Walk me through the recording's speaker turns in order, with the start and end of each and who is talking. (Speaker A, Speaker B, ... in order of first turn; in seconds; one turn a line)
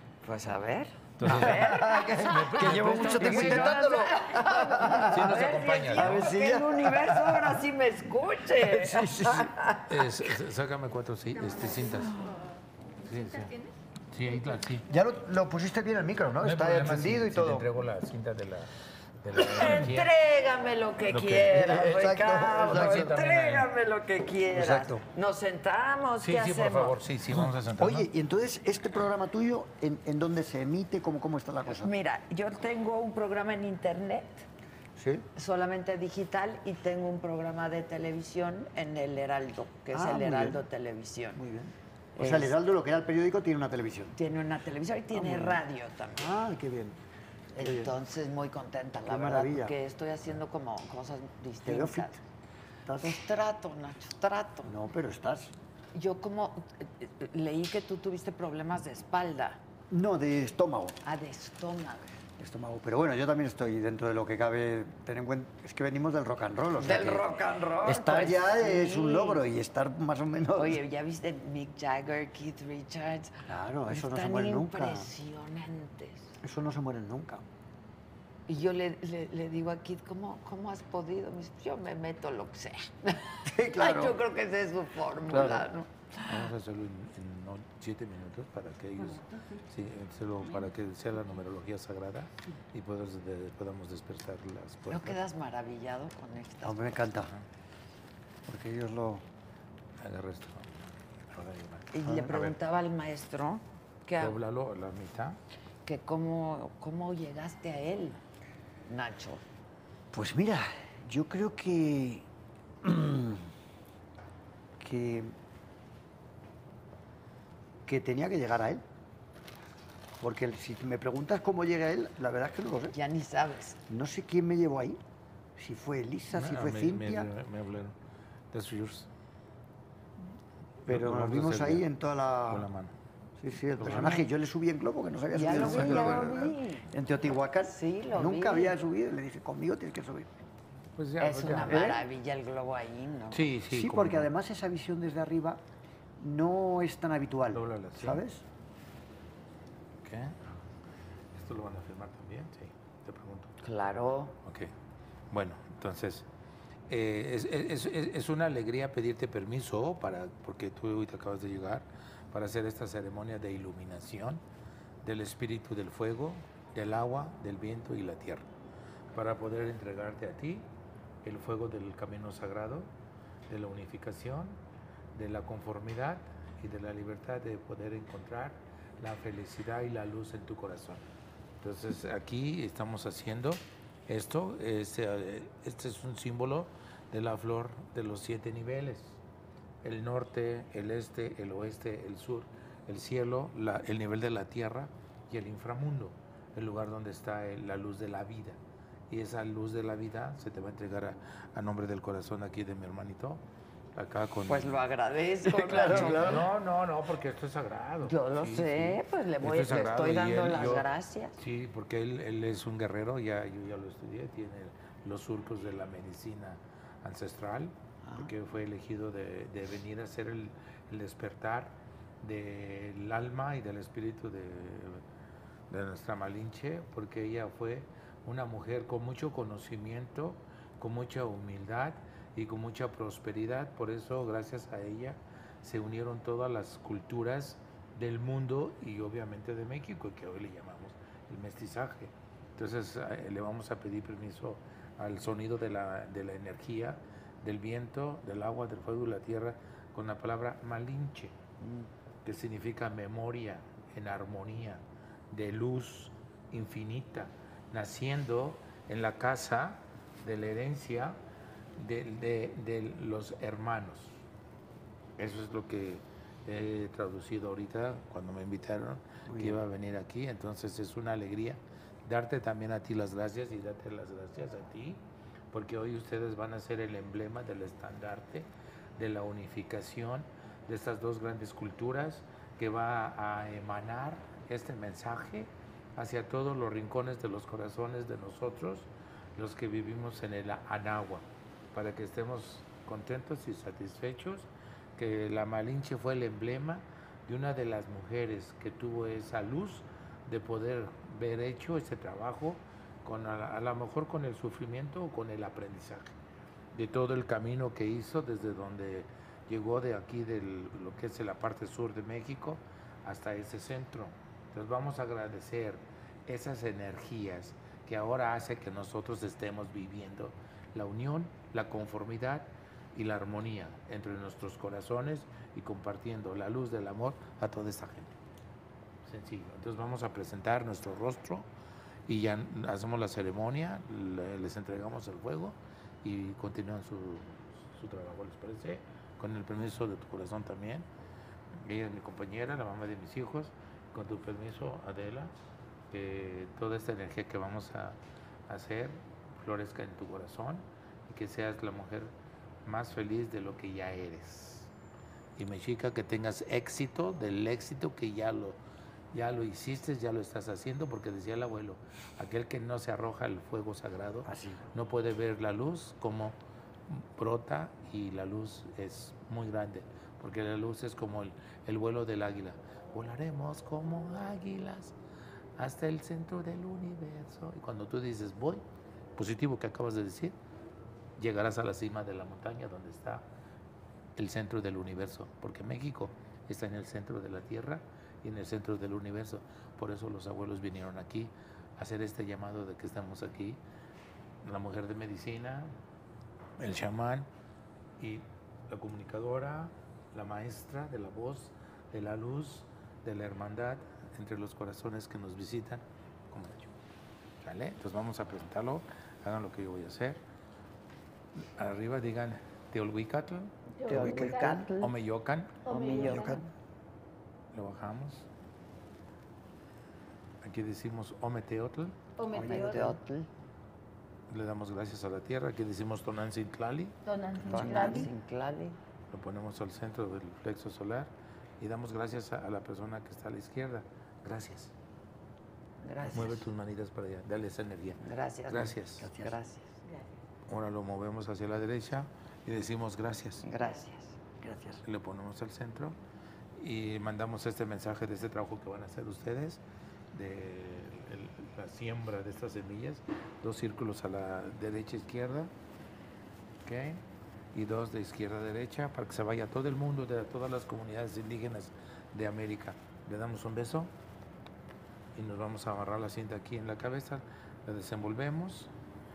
Speaker A: 0.2-9.5
Speaker B: 1.2-3.9
Speaker C: 1.2-7.6
Speaker B: 5.1-6.2
Speaker C: 8.5-10.2
Speaker B: 9.9-12.2
Speaker D: 11.3-14.6
Speaker B: 13.0-13.5
Speaker B: 14.1-14.8
Speaker C: 14.9-17.6
Speaker B: 16.4-20.1
Speaker A: 19.4-26.9
Speaker B: 21.1-21.6
Speaker C: 21.4-23.2
Speaker B: 22.4-23.7
Speaker C: 24.5-25.0
Speaker B: 26.2-28.1
Speaker C: 27.8-31.9
Speaker A: 31.6-34.5
Speaker C: 35.0-35.3
Speaker A: 35.3-41.4
Speaker C: 39.9-40.6
Speaker C: 41.3-44.1
Speaker A: 42.1-42.5
Speaker A: 44.1-46.3
Speaker C: 45.1-45.6
Speaker C: 46.2-47.0
Speaker A: 47.5-52.2
Speaker C: 47.6-47.9
Speaker C: 49.0-49.7
Speaker C: 51.6-52.1
Speaker C: 52.9-53.2
Speaker A: 53.0-54.7
Speaker C: 54.6-55.5
Speaker A: 55.9-59.6
Speaker C: 59.9-61.0
Speaker A: 61.0-62.1
Speaker C: 62.4-70.8
Speaker A: 66.8-69.4
Speaker A: 70.5-76.3
Speaker C: 73.5-75.1
Speaker C: 76.4-77.4
Speaker A: 78.5-86.5
Speaker C: 83.5-84.2
Speaker C: 85.3-85.7
Speaker B: 86.2-95.2
Speaker D: 89.0-89.7
Speaker D: 90.4-90.7
Speaker A: 94.9-97.0
Speaker C: 96.6-97.3
Speaker C: 98.5-99.2
Speaker B: 100.0-101.9
Speaker A: 101.9-104.4
Speaker C: 102.0-102.5
Speaker B: 104.2-105.4
Speaker A: 105.8-108.2
Speaker A: 108.9-109.4
Speaker C: 110.1-112.2
Speaker C: 112.8-113.5
Speaker C: 114.8-115.3
Speaker C: 117.8-118.8
Speaker C: 120.2-123.0
Speaker A: 122.9-123.8
Speaker C: 123.9-125.0
Speaker C: 125.6-127.3
Speaker B: 126.3-128.0
Speaker B: 128.5-129.1
Speaker C: 130.8-132.7
Speaker B: 130.9-131.8
Speaker B: 132.5-132.9
Speaker C: 133.4-140.3
Speaker B: 133.8-134.2
Speaker A: 135.3-136.9
Speaker B: 135.5-136.3
Speaker A: 137.6-138.8
Speaker B: 140.9-141.9
Speaker A: 141.2-143.4
Speaker C: 141.6-142.0
Speaker B: 143.3-144.3
Speaker C: 143.7-145.6
Speaker C: 146.2-148.4
Speaker B: 147.5-148.2
Speaker B: 150.0-150.5
Speaker B: 151.3-153.6
Speaker A: 153.6-154.3
Speaker B: 154.4-154.7
Speaker B: 155.3-156.3
Speaker B: 156.9-164.4
Speaker B: 165.0-168.5
Speaker B: 169.1-170.7
Speaker B: 171.2-172.9
Speaker B: 173.5-174.6
Speaker B: 175.1-181.1
Speaker B: 181.6-189.2
Speaker B: 189.8-203.4
Speaker B: 203.9-204.8
Speaker A: 204.5-206.4
Speaker C: 205.5-206.5
Speaker B: 205.7-225.0
Speaker A: 208.1-211.3
Speaker B: 225.7-251.3
Speaker B: 252.2-261.2
Speaker B: 261.8-264.1
Speaker B: 265.2-306.1
Speaker C: 269.2-269.6
Speaker B: 306.7-328.2
Speaker B: 329.0-331.5
Speaker B: 332.1-340.9
Speaker B: 341.6-345.3
Speaker B: 345.9-352.1
Speaker B: 352.6-354.7
Speaker B: 355.4-358.6
Speaker B: 359.1-366.4
Speaker C: 364.2-364.6
Speaker B: 366.9-374.9
Speaker B: 375.6-378.6
Speaker B: 379.1-380.4
Speaker B: 381.2-383.3
Speaker B: 384.1-393.6
Speaker B: 394.4-395.8
Speaker B: 396.6-397.3
Speaker B: 398.0-406.7
Speaker B: 407.4-410.2
Speaker B: 411.6-414.0
Speaker D: 413.7-414.7
Speaker A: 413.9-414.9
Speaker C: 413.9-414.7
Speaker B: 414.8-415.6
Speaker D: 415.6-416.4
Speaker A: 415.6-416.5
Speaker C: 415.9-416.3
Speaker B: 417.5-418.3
Speaker B: 420.4-422.0
Speaker D: 422.2-423.0
Speaker A: 422.3-423.3
Speaker C: 422.3-422.8
Speaker B: 424.3-428.0
Speaker D: 427.0-428.1
Speaker A: 427.5-428.8
Speaker B: 429.1-434.7
Speaker A: 435.8-436.5
Speaker B: 436.1-439.1
Speaker A: 438.0-439.8
Speaker C: 439.0-439.4
Speaker D: 439.8-440.2
Speaker B: 440.5-443.4
Speaker A: 443.4-444.2
Speaker C: 444.4-444.8
Speaker B: 444.8-446.0
Speaker B: 446.6-449.6
Speaker B: 450.1-455.5
Speaker B: 456.6-463.9
Speaker B: 465.1-468.7